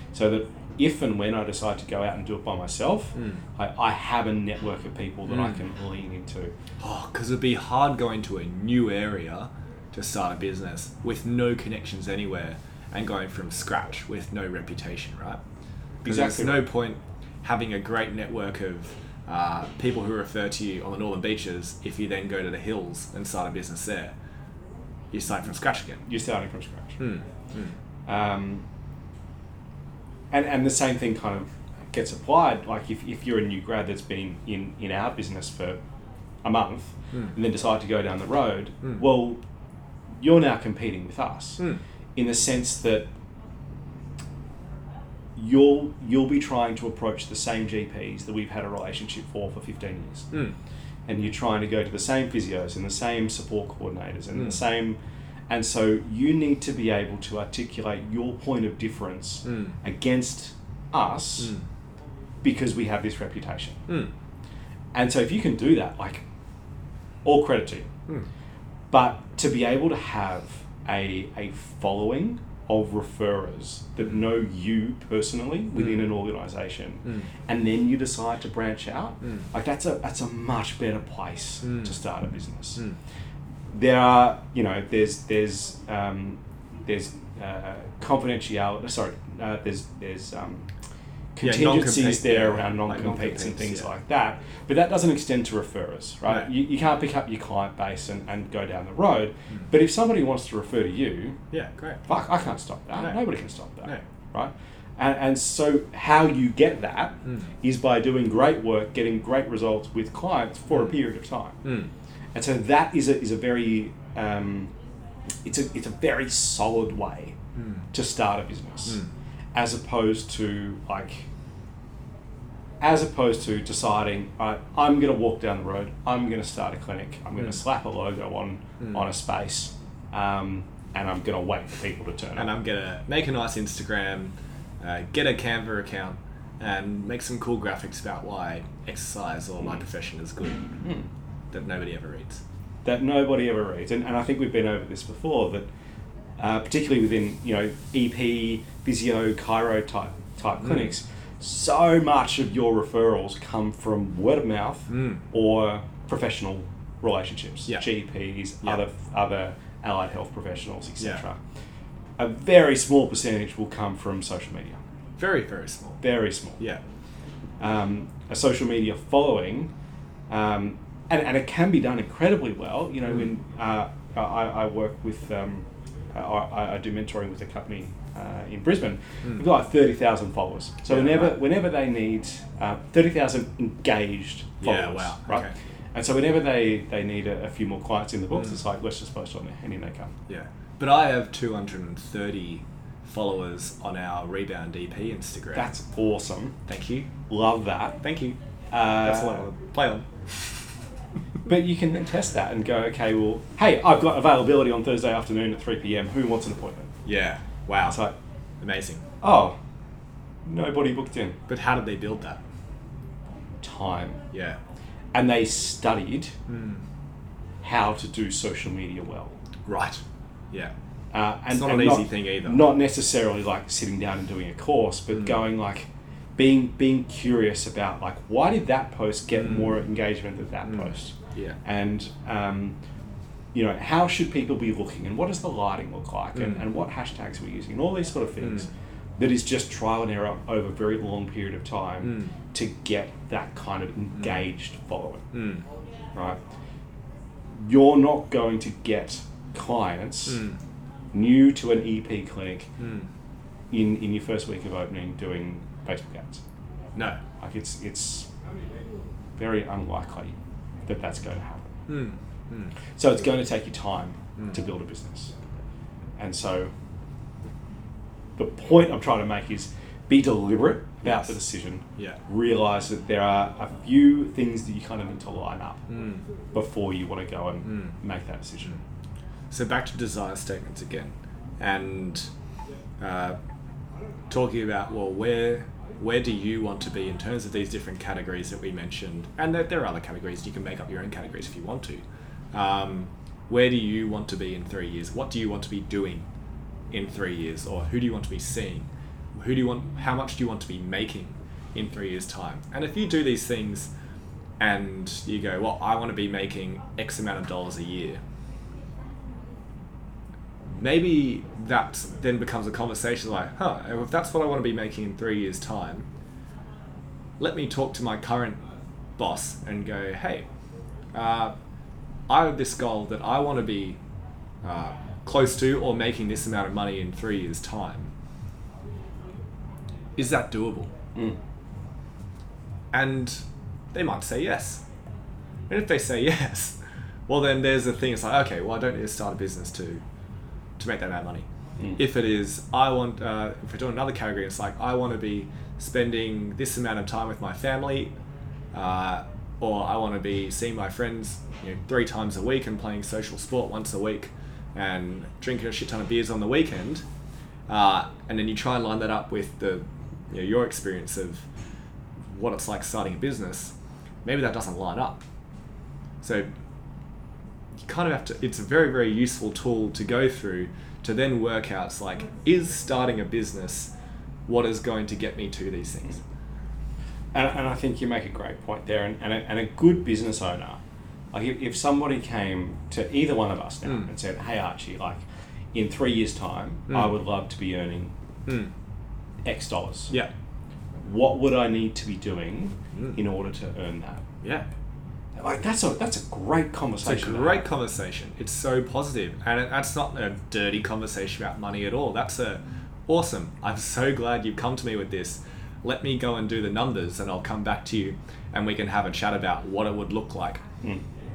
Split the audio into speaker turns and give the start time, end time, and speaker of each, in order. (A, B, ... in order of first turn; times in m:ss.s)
0:00.1-0:06.5 A
0:03.2-0:03.4 B
0:05.3-0:05.6 B
0:06.8-0:15.4 B
0:16.0-0:24.1 B
0:16.0-0:16.6 A
0:25.1-0:26.0 B
0:26.0-0:27.0 A
0:27.0-0:27.7 B
0:28.1-0:28.6 A
0:30.3-0:35.8 A
0:36.4-0:39.4 A
0:40.2-0:41.6 A
0:42.2-0:43.1 A
0:45.4-0:50.3 A
0:51.1-0:55.0 A
0:54.3-0:54.6 B
0:55.5-1:01.6 A
0:59.4-0:59.8 B
1:01.4-1:01.6 B
1:02.4-1:03.8 A
1:04.9-1:06.2 A
1:07.2-1:07.9 A
1:08.9-1:22.8 A
1:15.8-1:16.1 B
1:21.6-1:21.9 B
1:23.7-1:30.7 A
1:31.4-1:41.4 A
1:31.4-1:33.9 B
1:41.5-1:42.0 B
1:42.1-1:51.6 A
1:51.6-1:51.9 B
1:52.3-1:54.7 A
1:55.4-1:57.4 A
1:57.6-1:57.9 B
1:57.9-1:59.0 A
1:59.5-2:01.3 A
2:02.8-2:12.5 A
2:08.8-2:09.1 B
2:12.4-2:20.7 B
2:20.8-2:21.1 A
2:21.5-2:22.4 B
2:22.8-2:25.7 A
2:26.4-2:41.4 A
2:30.6-2:30.9 B
2:34.9-2:35.2 B
2:42.2-2:44.8 A
2:45.2-2:46.0 B
2:46.0-2:46.6 A
2:47.6-2:49.7 A
2:50.3-3:10.1 A
3:00.9-3:01.4 B
3:04.6-3:05.6 B
3:10.3-3:15.7 B
3:15.6-3:16.6 A
3:16.7-3:17.1 B
3:17.3-3:18.0 A
3:18.0-3:18.4 B
3:18.7-3:19.5 A
3:19.0-3:20.5 B
3:21.5-3:26.9 A
3:27.0-3:28.0 B
3:27.8-3:28.1 A
3:28.6-3:29.0 B
3:29.2-3:29.6 A
3:30.4-3:31.4 A
3:31.5-3:32.4 B
3:33.6-3:34.2 A
3:34.3-3:34.6 B
3:35.1-3:36.3 A
3:36.5-3:36.8 B
3:37.6-3:39.4 A
3:39.7-3:40.7 B
3:41.1-3:52.8 A
3:41.5-3:42.7 B
3:45.1-3:45.4 B
3:50.7-3:51.6 B
3:53.5-4:05.3 A
4:02.0-4:02.3 B
4:05.3-4:05.6 B
4:07.6-4:10.4 A
4:10.3-4:10.6 B
4:11.1-4:12.7 A
4:12.8-4:13.1 B
4:13.7-4:16.4 A
4:17.4-4:18.3 A
4:19.4-4:20.4 A
4:20.9-4:21.8 A
4:21.9-4:22.7 B
4:23.0-4:25.4 A
4:26.2-4:26.7 A
4:28.4-4:35.8 A
4:31.0-4:31.4 B
4:35.9-4:36.2 B
4:36.5-4:38.8 A
4:37.7-4:37.9 B
4:39.5-4:42.3 B
4:43.0-4:43.4 B
4:44.3-4:56.3 B
4:56.9-5:03.9 B
5:04.6-5:08.2 B
5:10.7-5:16.1 B
5:17.4-5:18.6 B
5:19.2-5:20.5 B
5:21.1-5:21.5 B
5:22.3-5:24.0 B
5:24.6-5:28.1 B
5:30.2-5:30.9 B
5:32.9-5:34.8 B
5:35.7-5:40.0 B
5:40.8-5:48.1 B
5:48.7-5:57.0 B
5:57.7-6:01.4 B
6:02.3-6:03.7 B
6:04.2-6:05.2 B
6:06.2-6:06.5 B
6:07.8-6:13.9 B
6:14.5-6:16.2 B
6:17.3-6:28.1 A
6:28.5-6:28.7 B
6:29.4-6:30.1 A
6:31.0-6:34.2 A
6:34.4-6:34.7 B
6:35.4-6:37.7 A
6:37.0-6:50.6 B